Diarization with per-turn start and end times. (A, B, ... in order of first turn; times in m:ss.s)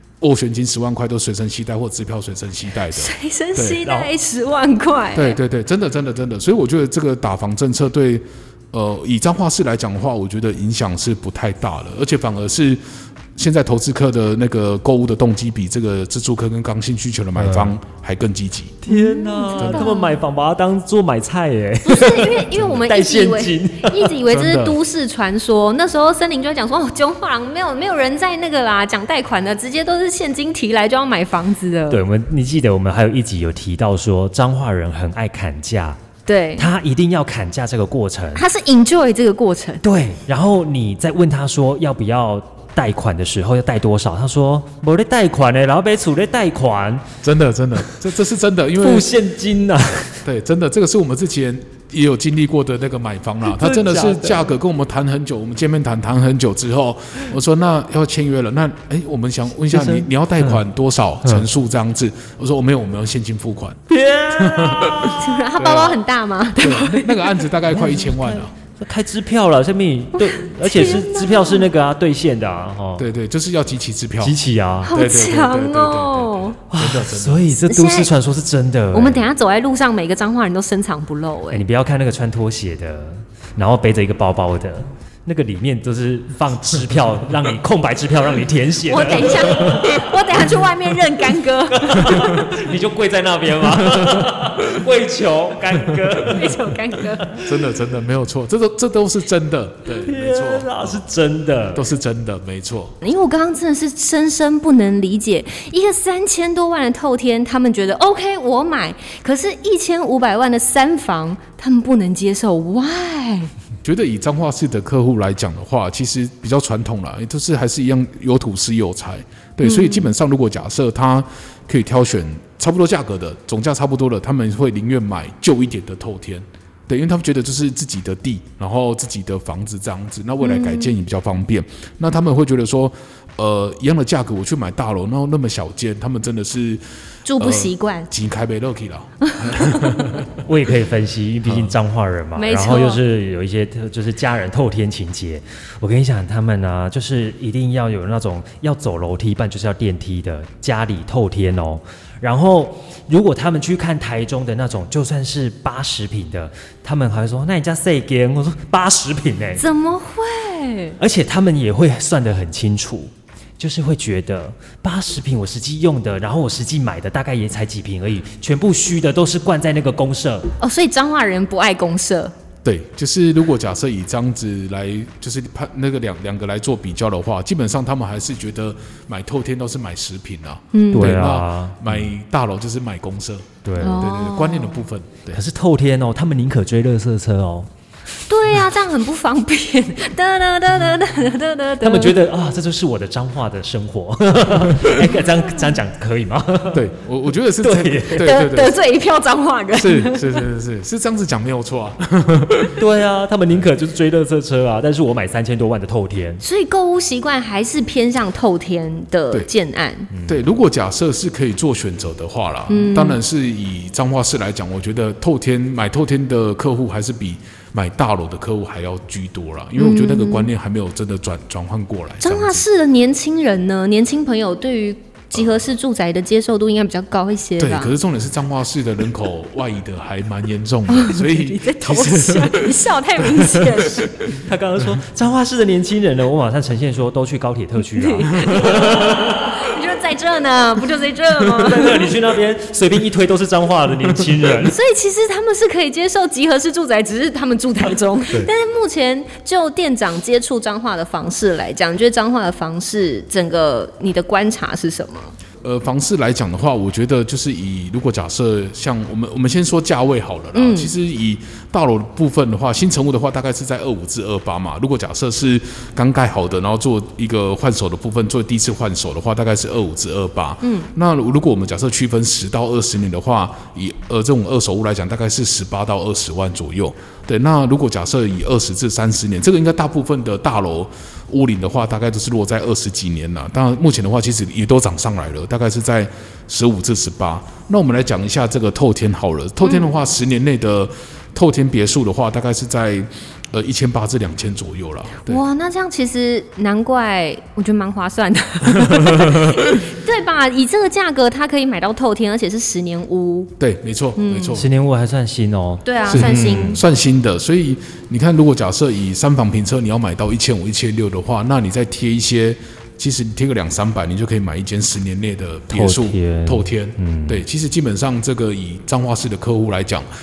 0:00.2-0:03.8 A
0:02.9-0:05.4 B
0:03.8-0:04.1 C
0:05.1-0:12.8 A
0:13.3-0:18.8 A
0:17.3-0:17.8 C
0:18.8-0:24.2 C
0:18.9-0:20.2 B
0:19.5-0:19.9 A
0:21.8-0:32.0 B
0:24.3-0:24.8 A
0:31.9-0:36.0 C
0:36.2-0:36.7 B
0:36.6-0:38.4 C
0:38.3-0:39.8 B
0:39.8-0:47.0 C
0:47.2-0:49.1 A
0:48.8-0:50.2 C
0:50.2-1:03.8 A
0:53.4-0:54.5 C
0:59.7-1:00.6 C
1:03.9-1:05.4 C
1:04.3-1:06.0 A
1:05.1-1:07.5 B
1:06.6-1:08.5 A
1:07.7-1:13.1 C
1:10.2-1:11.7 B
1:13.0-1:14.4 A
1:14.2-1:14.9 C
1:14.8-1:16.6 B
1:14.9-1:17.5 A
1:16.7-1:19.3 C
1:17.6-1:18.1 B
1:18.9-1:21.6 B
1:21.5-1:30.4 C
1:28.8-1:32.4 B
1:31.7-1:37.5 C
1:32.0-1:32.4 A
1:33.8-1:34.2 A
1:36.1-1:37.3 B
1:37.4-1:40.9 A
1:39.9-1:41.9 C
1:41.7-1:42.9 A
1:43.0-1:53.5 B
1:53.8-2:16.8 A
1:59.6-2:00.1 B
2:10.4-2:10.9 B
2:17.2-2:18.1 B
2:17.4-2:20.3 A
2:19.3-2:20.0 B
2:20.4-2:39.6 C
2:21.4-2:21.7 A
2:22.4-2:23.0 B
2:39.6-2:41.0 B
2:41.0-2:50.5 C
2:50.6-2:52.3 B
2:52.6-3:05.4 A
3:00.7-3:01.2 B
3:00.9-3:02.1 C
3:03.6-3:04.1 C
3:03.8-3:04.8 B
3:05.3-3:07.7 C
3:08.3-3:12.2 B
3:11.8-3:16.9 C
3:16.7-3:18.8 A
3:17.6-3:18.4 C
3:18.2-3:20.4 B
3:19.7-3:22.8 A
3:22.7-3:26.4 C
3:26.4-3:30.1 B
3:30.1-3:30.5 C
3:30.2-3:42.6 A
3:32.7-3:33.2 B
3:39.8-3:40.5 B
3:42.2-3:48.0 B
3:45.3-3:45.6 A
3:47.6-3:54.3 A
3:50.9-3:54.1 B
3:54.2-3:59.4 C
3:57.8-4:02.1 B
4:01.5-4:04.8 C
4:04.6-4:15.3 B
4:15.6-4:55.4 A
4:20.5-4:20.9 B
4:30.6-4:30.9 B
4:49.6-4:49.9 B
4:55.2-5:03.5 B
4:58.9-4:59.3 A
5:03.6-5:04.7 A
5:04.2-5:04.6 B
5:04.5-5:06.8 C
5:05.8-5:06.8 B
5:06.1-5:20.1 A
5:15.7-5:17.4 C